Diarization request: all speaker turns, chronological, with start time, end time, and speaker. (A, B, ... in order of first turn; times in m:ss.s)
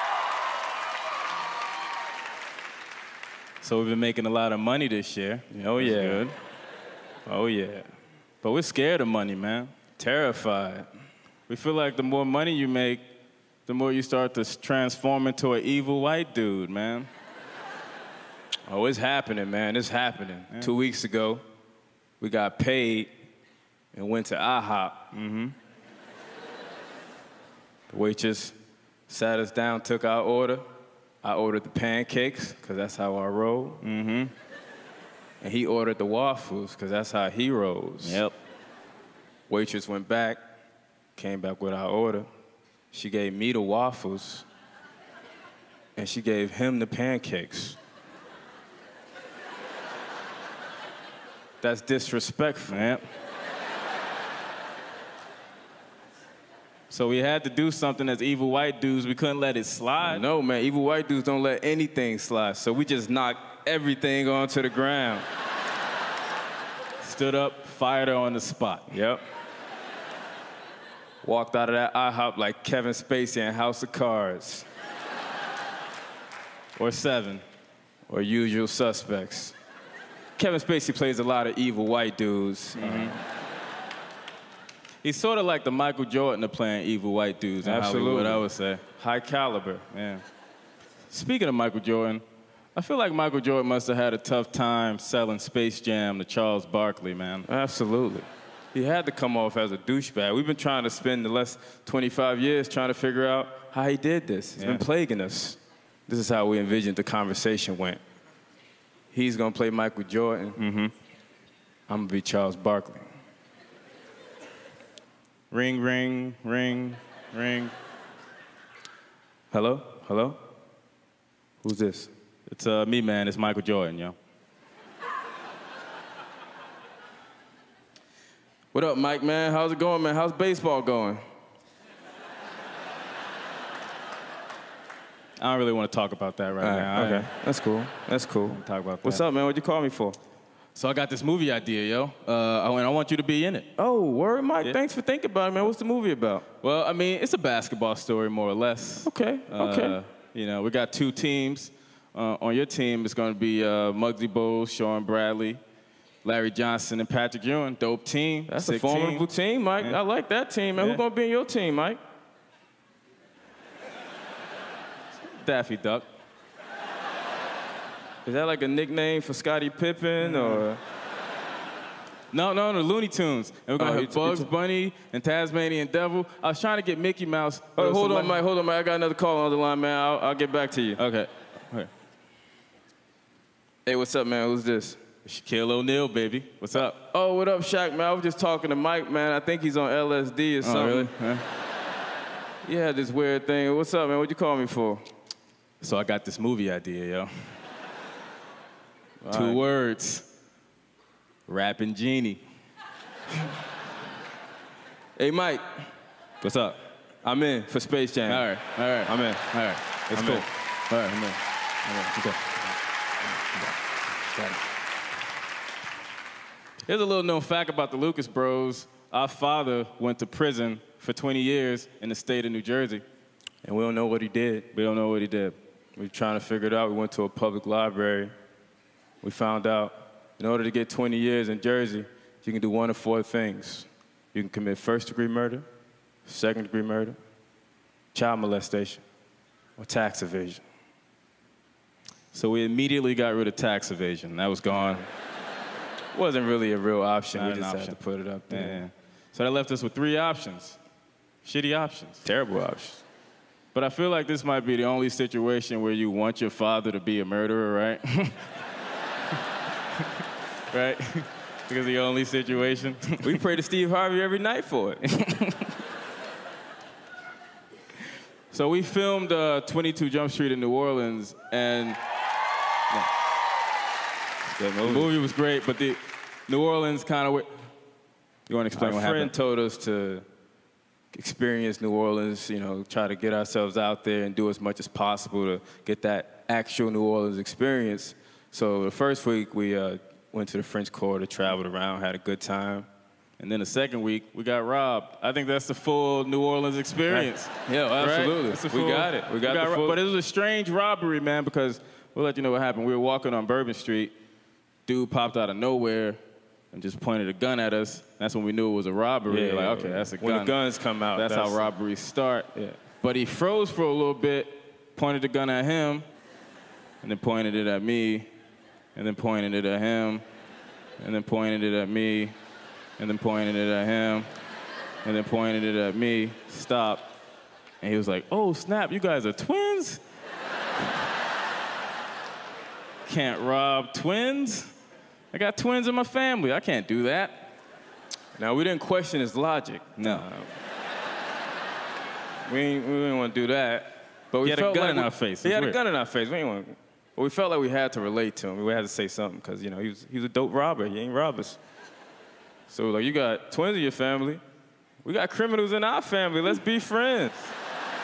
0:03.6-0:06.3 A
0:05.5-0:06.2 B
0:07.2-0:07.9 B
0:08.4-0:09.7 A
0:10.0-0:10.9 B
0:11.5-0:13.0 A
0:13.6-0:17.1 A
0:18.7-0:21.4 B
0:22.2-0:23.1 B
0:23.9-0:25.0 B
0:25.1-0:25.5 A
0:27.9-0:28.6 B
0:29.1-0:30.6 B
0:31.2-0:33.8 B
0:33.8-0:34.3 A
0:35.4-0:38.2 B
0:38.0-0:38.3 A
0:39.5-0:40.4 B
0:41.2-0:42.3 B
0:42.9-0:44.4 B
0:46.0-0:47.8 B
0:51.6-0:52.8 B
0:52.7-0:53.0 A
0:56.9-1:00.2 A
1:00.0-1:05.2 B
1:07.0-1:08.9 A
1:08.9-1:09.2 B
1:11.2-1:14.7 B
1:16.8-1:17.4 A
1:18.1-1:19.5 B
1:20.4-1:23.2 B
1:22.8-1:23.2 A
1:25.0-1:28.8 A
1:27.6-1:28.4 B
1:29.0-1:29.8 B
1:29.9-1:30.2 A
1:31.1-1:32.2 A
1:32.7-1:37.4 A
1:37.4-1:48.0 B
1:44.6-1:44.8 A
1:49.1-1:50.6 B
1:50.6-1:50.9 A
1:51.9-1:53.1 B
1:55.5-1:57.7 A
1:59.5-2:00.4 B
2:01.6-2:02.1 B
2:02.5-2:04.2 A
2:08.7-2:11.2 B
2:15.4-2:17.3 A
2:16.6-2:20.2 B
2:18.5-2:19.2 A
2:20.7-2:23.7 A
2:23.8-2:26.4 B
2:26.6-2:35.6 A
2:29.0-2:30.0 B
2:36.2-2:39.2 A
2:38.5-2:42.0 B
2:40.8-2:41.0 A
2:45.2-2:46.1 A
2:48.2-2:50.8 B
2:50.2-2:50.6 A
2:52.3-2:58.4 A
2:53.8-2:54.5 B
2:57.8-3:01.0 B
3:01.0-3:01.9 A
3:03.8-3:05.0 B
3:05.2-3:07.0 A
3:06.7-3:11.1 B
3:10.6-3:11.4 A
3:12.6-3:15.0 B
3:15.8-3:17.6 A
3:19.2-3:19.7 B
3:19.3-3:20.2 A
3:21.5-3:22.4 A
3:25.2-3:25.9 B
3:26.4-3:26.8 A
3:27.2-3:28.5 B
3:28.3-3:31.4 A
3:29.0-3:29.4 B
3:30.1-3:30.5 B
3:31.8-3:32.6 B
3:34.3-3:34.6 B
3:36.8-3:43.0 A
3:43.6-3:44.7 B
3:44.7-3:45.6 A
3:46.0-3:48.3 B
3:49.2-3:55.6 B
3:56.2-3:57.2 B
3:58.1-3:59.0 B
3:59.8-4:00.6 B
4:02.3-4:05.0 A
4:04.7-4:05.0 B
4:06.1-4:08.8 B
4:07.3-4:08.0 A
4:08.5-4:10.8 A
4:11.4-4:12.2 A
4:12.2-4:13.0 B
4:13.7-4:18.4 A
4:20.7-4:23.4 A
4:23.2-4:25.0 B
4:25.1-4:25.7 A
4:28.5-4:32.0 A
4:34.4-4:35.1 B
4:34.8-4:37.7 A
4:38.5-4:39.3 A
4:38.7-4:40.2 B
4:41.1-4:52.9 B
4:53.4-5:04.1 A
4:57.1-5:00.0 B
5:04.8-5:06.2 A
5:06.7-5:10.6 A
5:09.3-5:11.7 B
5:11.1-5:12.5 A
5:13.0-5:16.0 A
5:17.0-5:18.3 A
5:18.9-5:20.2 A
5:21.0-5:22.3 A
5:23.0-5:24.3 A
5:25.0-5:27.1 A
5:27.8-5:30.0 A
5:33.0-5:34.7 A
5:35.3-5:37.5 A
5:38.4-5:40.5 B
5:40.0-5:40.3 A
5:42.4-5:51.6 B
5:44.4-5:45.8 A
5:52.7-5:54.4 B
5:55.0-5:57.5 B